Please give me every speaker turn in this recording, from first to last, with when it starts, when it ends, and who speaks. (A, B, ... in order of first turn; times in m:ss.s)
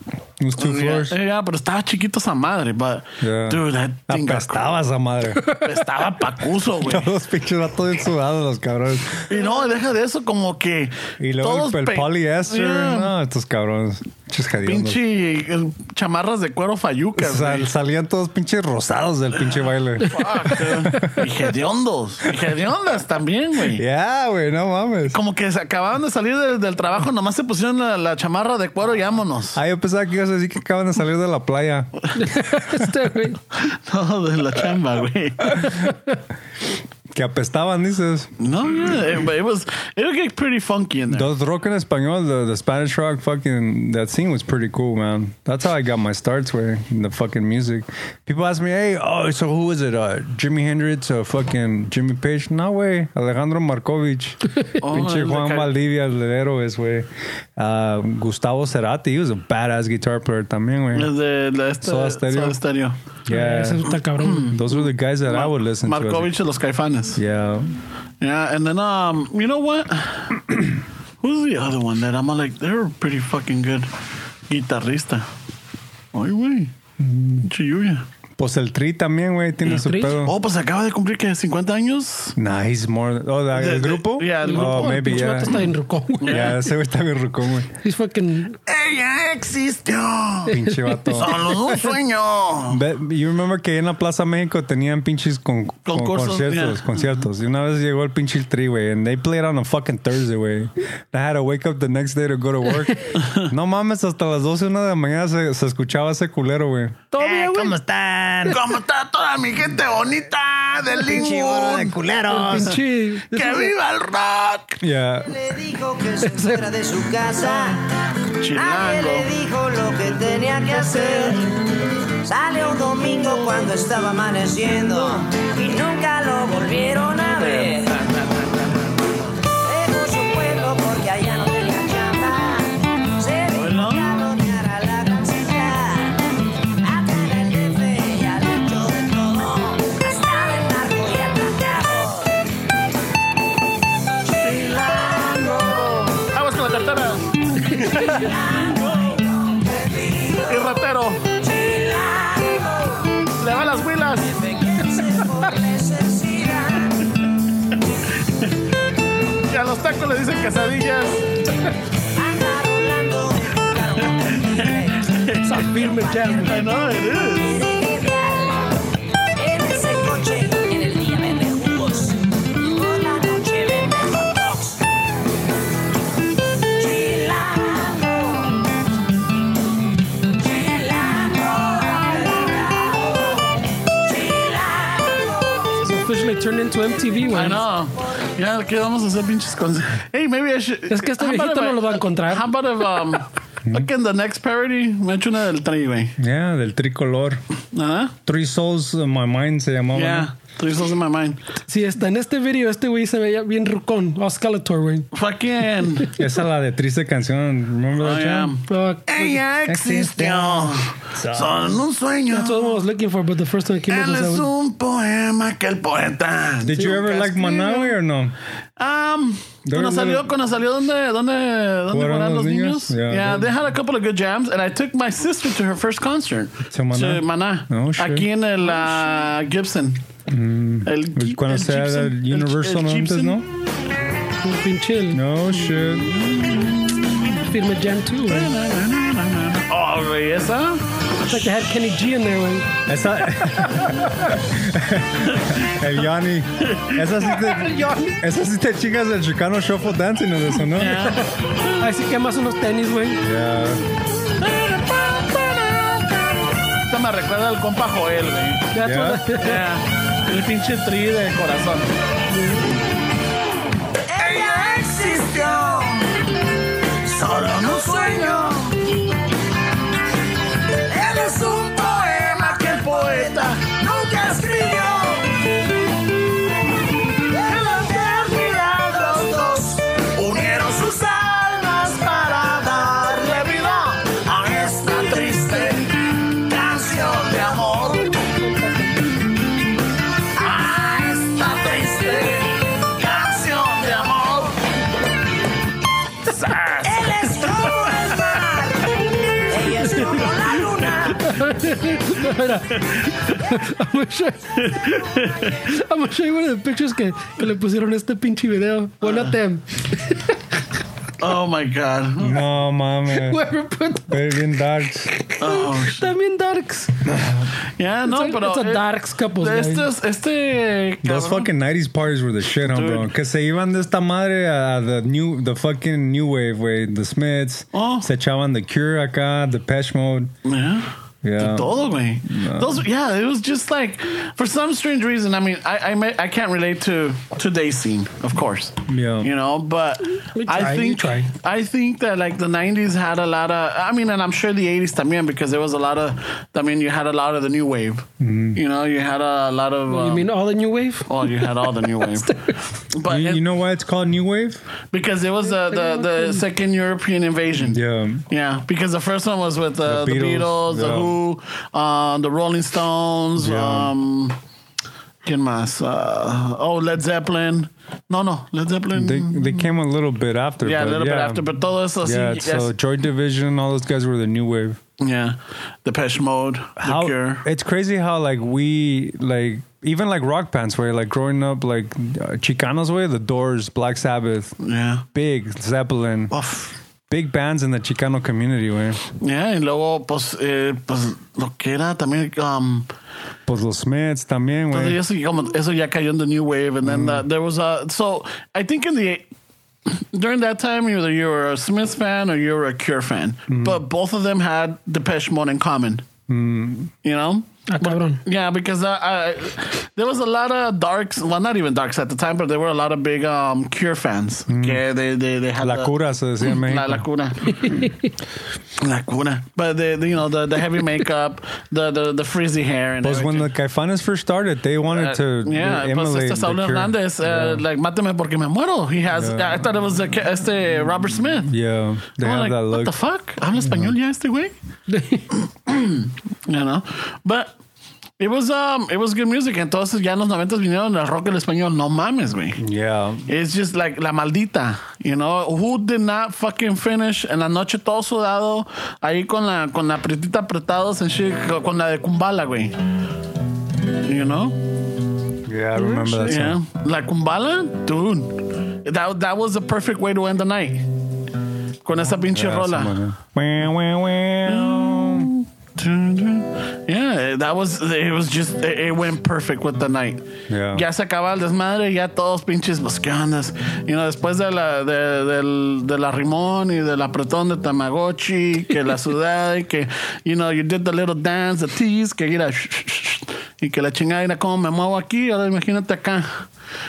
0:00.4-0:01.2 A
0:00.6-0:04.7 B
0:03.2-0:05.5 A
0:05.5-0:07.1 B
0:06.8-0:09.3 A
0:09.3-0:13.1 B
0:11.2-0:15.0 A
0:14.6-0:17.7 B
0:17.2-0:21.2 A
0:20.0-0:23.8 B
0:23.7-0:25.2 A
0:25.1-0:29.6 B
0:29.5-0:32.1 A
0:32.2-0:33.4 C
0:33.5-0:35.7 B
0:35.7-0:36.2 C
0:37.1-0:38.3 A
0:38.4-0:41.3 B
0:41.1-1:01.1 A
0:54.8-0:55.7 B
1:00.9-1:03.0 B
1:01.8-1:02.6 A
1:03.2-1:06.3 A
1:03.3-1:04.5 C
1:04.2-1:07.2 B
1:07.1-1:07.7 A
1:08.2-1:10.7 B
1:11.2-1:13.9 B
1:14.5-1:15.2 B
1:16.1-1:16.7 B
1:17.0-1:17.4 A
1:17.4-1:18.0 B
1:18.4-1:20.3 A
1:19.7-1:22.4 B
1:19.8-1:20.2 C
1:22.4-1:25.6 A
1:23.5-1:25.2 B
1:24.4-1:26.7 C
1:26.2-1:26.5 B
1:26.3-1:27.7 A
1:27.8-1:28.6 C
1:28.7-1:30.5 B
1:30.5-1:31.9 A
1:30.6-1:31.2 C
1:31.1-1:32.8 B
1:32.7-1:47.0 A
1:35.8-1:37.2 B
1:43.2-1:43.5 B
1:47.1-1:47.8 C
1:47.2-1:48.3 D
1:48.4-1:52.0 B
1:51.0-1:52.6 D
1:52.3-1:53.7 C
1:52.5-1:52.8 B
1:53.3-1:54.8 B
1:54.8-1:55.4 A
1:55.3-1:57.8 D
1:56.2-1:56.6 C
1:58.4-1:59.3 B
1:58.5-2:01.5 D
2:00.7-2:01.4 B
2:02.2-2:08.0 D
2:07.3-2:08.9 B
2:09.4-2:16.2 D
2:13.5-2:14.1 B
2:16.8-2:22.4 D
2:24.3-2:26.3 D
2:24.4-2:28.3 B
2:27.7-2:33.2 D
2:27.8-2:28.1 C
2:30.5-2:31.2 B
2:33.4-2:34.3 B
2:34.2-2:37.0 D
2:38.2-2:38.5 B
2:39.4-2:41.3 B
2:42.2-2:45.2 D
2:44.4-2:45.7 B
2:45.4-2:46.6 C
2:45.8-2:48.8 D
2:46.4-2:47.6 B
2:49.4-2:54.9 D
2:56.7-2:58.6 D
3:00.3-3:05.8 D
3:05.8-3:07.6 C
3:07.3-3:16.1 B
3:10.9-3:12.5 C
3:16.2-3:17.4 A
3:17.7-3:18.1 B
3:18.2-3:20.3 A
3:19.9-3:21.4 B
3:21.7-3:25.1 C
3:25.1-3:26.1 B
3:26.2-3:28.5 A
3:28.0-3:32.8 B
3:28.7-3:29.4 C
3:29.7-3:31.8 A
3:32.3-3:34.5 C
3:33.9-3:38.0 B
3:36.6-3:38.3 A
3:38.8-3:50.0 B
3:39.6-3:40.3 A
3:41.9-3:43.5 A
3:46.7-3:48.3 A
3:50.3-3:53.5 A
3:50.8-3:53.4 B
3:54.4-3:55.2 C
3:55.1-3:56.1 A
3:55.5-3:57.4 B
3:57.5-3:58.5 C
3:58.3-4:00.8 B
4:01.3-4:02.8 C
4:02.9-4:11.1 A
4:03.3-4:04.1 C
4:05.2-4:05.7 B
4:06.6-4:07.3 B
4:07.4-4:08.2 C
4:10.7-4:11.7 B
4:11.7-4:13.2 C
4:13.2-4:13.8 A
4:14.4-4:15.9 B
4:16.8-4:18.7 B
4:18.7-4:19.6 C
4:18.8-4:19.2 A
4:19.4-4:21.9 B
4:24.1-4:26.0 D
4:24.2-4:25.8 B
4:27.1-4:28.7 B
4:27.2-4:28.7 D
4:30.9-4:35.4 D
4:31.0-4:33.7 B
4:37.2-4:45.8 D
4:40.2-4:48.1 B
4:46.5-4:47.8 D
4:50.4-4:54.0 D
4:50.4-4:50.7 B
4:51.3-4:54.5 B
4:56.2-4:58.5 B
4:56.8-5:01.3 D
4:59.8-5:00.2 C
5:01.2-5:04.6 C
5:02.8-5:03.4 B
5:04.5-5:05.6 B
5:05.6-5:10.4 C
5:09.0-5:09.3 B
5:11.2-5:12.4 B
5:12.2-5:13.4 A
5:13.1-5:14.4 C
5:14.1-5:15.1 A
5:15.2-5:17.1 C
5:15.4-5:16.1 B
5:17.1-5:17.4 A
5:17.8-5:18.8 B
5:18.0-5:19.9 C
5:19.4-5:21.5 B
5:21.0-5:30.3 A
5:22.6-5:23.1 B
5:27.7-5:28.1 B
5:30.4-5:50.3 B
5:31.2-5:32.8 A
5:38.8-5:39.3 A
5:40.3-5:41.3 C
5:48.2-5:48.6 A
5:49.9-5:52.5 C
5:51.1-5:52.4 B
5:52.9-5:53.4 B
5:53.0-5:54.6 A
5:54.9-6:04.4 B
5:55.6-5:56.4 C
5:57.6-5:58.2 A
5:59.8-6:01.2 A
6:03.4-6:03.9 A
6:05.2-6:09.7 B
6:08.9-6:11.4 A
6:10.6-6:12.7 B
6:12.0-6:14.8 A
6:15.0-6:17.4 B
6:16.8-6:24.6 A
6:24.6-6:25.0 B
6:25.1-6:26.3 A
6:26.3-6:26.7 B
6:27.1-6:29.0 A
6:29.2-6:32.9 B
6:33.5-6:35.0 A
6:34.7-6:39.3 B
6:36.8-6:37.2 A
6:39.9-6:46.0 B
6:43.5-6:43.8 A
6:46.3-6:46.9 A
6:47.0-6:57.8 B
6:47.7-6:48.2 C
6:54.5-6:54.8 A
6:55.6-6:57.0 A
6:57.6-6:58.1 C
6:58.8-7:03.5 B
7:03.0-7:07.6 A
7:04.9-7:11.5 B
7:09.1-7:09.6 A
7:11.4-7:13.0 A
7:12.2-7:14.5 B
7:13.6-7:13.9 A
7:14.9-7:15.2 C
7:15.3-7:17.5 B
7:18.2-7:22.6 B
7:22.6-7:23.2 A
7:23.3-7:32.8 B
7:34.0-7:34.6 B
7:35.4-7:36.6 A
7:35.8-7:36.2 C
7:36.2-7:40.8 B
7:41.8-7:42.9 B
7:42.3-7:45.3 A
7:44.4-8:06.4 B
7:50.5-7:50.8 A